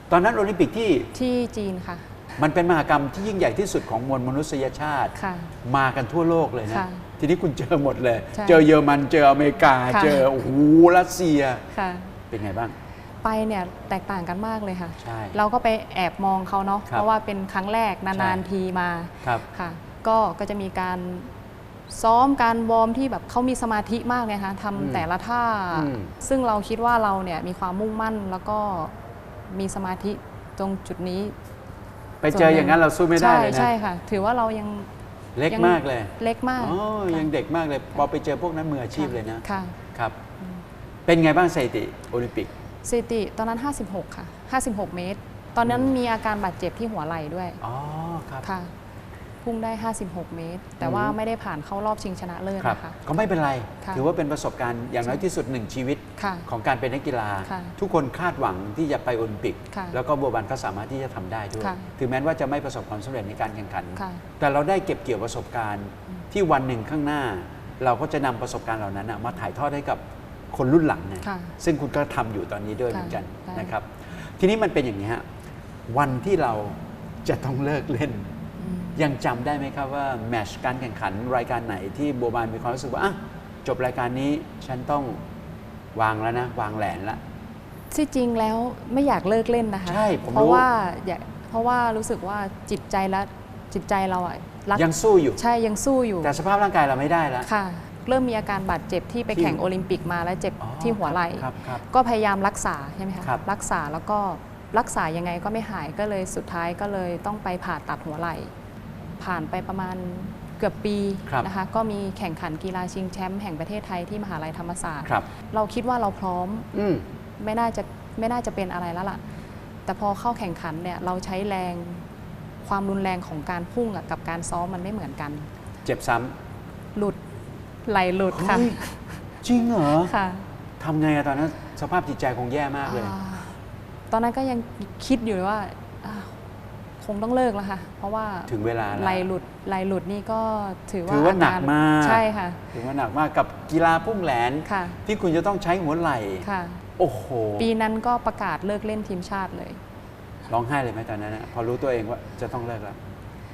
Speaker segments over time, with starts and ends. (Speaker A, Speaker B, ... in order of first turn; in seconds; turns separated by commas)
Speaker A: 0.1-1.1, Speaker B: 1.1-2.1, Speaker A: 2.4-11.7, Speaker B: 5.1-5.5, Speaker B: 6.7-7.0, Speaker B: 8.3-8.7, Speaker B: 9.9-10.3, Speaker B: 11.7-12.2, Speaker A: 12.3-12.8, Speaker B: 13.2-21.3, Speaker A: 15.0-15.4, Speaker A: 18.1-18.4, Speaker B: 21.9-31.3, Speaker A: 24.8-25.1, Speaker A: 25.7-26.1, Speaker A: 32.2-33.7, Speaker B: 32.3-34.9, Speaker A: 35.4-40.2, Speaker B: 35.5-37.3, Speaker B: 39.4-39.8, Speaker A: 41.1-42.5, Speaker B: 42.8-47.6, Speaker A: 45.6-45.9, Speaker A: 47.6-48.5, Speaker B: 48.4-48.7, Speaker B: 49.4-53.0, Speaker A: 50.8-51.2, Speaker A: 52.6-75.3, Speaker B: 56.2-56.5, Speaker B: 57.4-57.8, Speaker B: 59.7-60.0, Speaker B: 61.6-61.9, Speaker B: 64.0-64.2, Speaker B: 71.2-71.6, Speaker B: 72.9-73.7, Speaker A: 75.9-78.3, Speaker B: 78.6-79.0, Speaker A: 79.0-85.2, Speaker A: 86.0-87.2, Speaker B: 87.9-96.3, Speaker A: 89.9-90.7, Speaker A: 94.8-95.4, Speaker A: 96.2-97.5, Speaker B: 97.4-108.5, Speaker A: 99.3-99.6, Speaker A: 100.6-101.8, Speaker B: 109.2-116.7, Speaker A: 116.7-117.0, Speaker B: 117.4-119.2, Speaker B: 119.9-122.0, Speaker B: 122.6-125.5, Speaker A: 125.8-126.3, Speaker B: 127.0-127.2, Speaker B: 127.8-129.2, Speaker A: 128.3-128.8, Speaker A: 129.4-130.1, Speaker B: 130.0-130.5, Speaker A: 130.8-133.2, Speaker B: 132.9-133.6, Speaker B: 134.1-136.4, Speaker B: 137.0-142.6, Speaker A: 138.5-139.3, Speaker A: 141.1-146.5, Speaker B: 144.7-145.0, Speaker B: 146.4-146.8, Speaker A: 147.0-147.7, Speaker B: 147.6-149.8, Speaker A: 150.5-153.0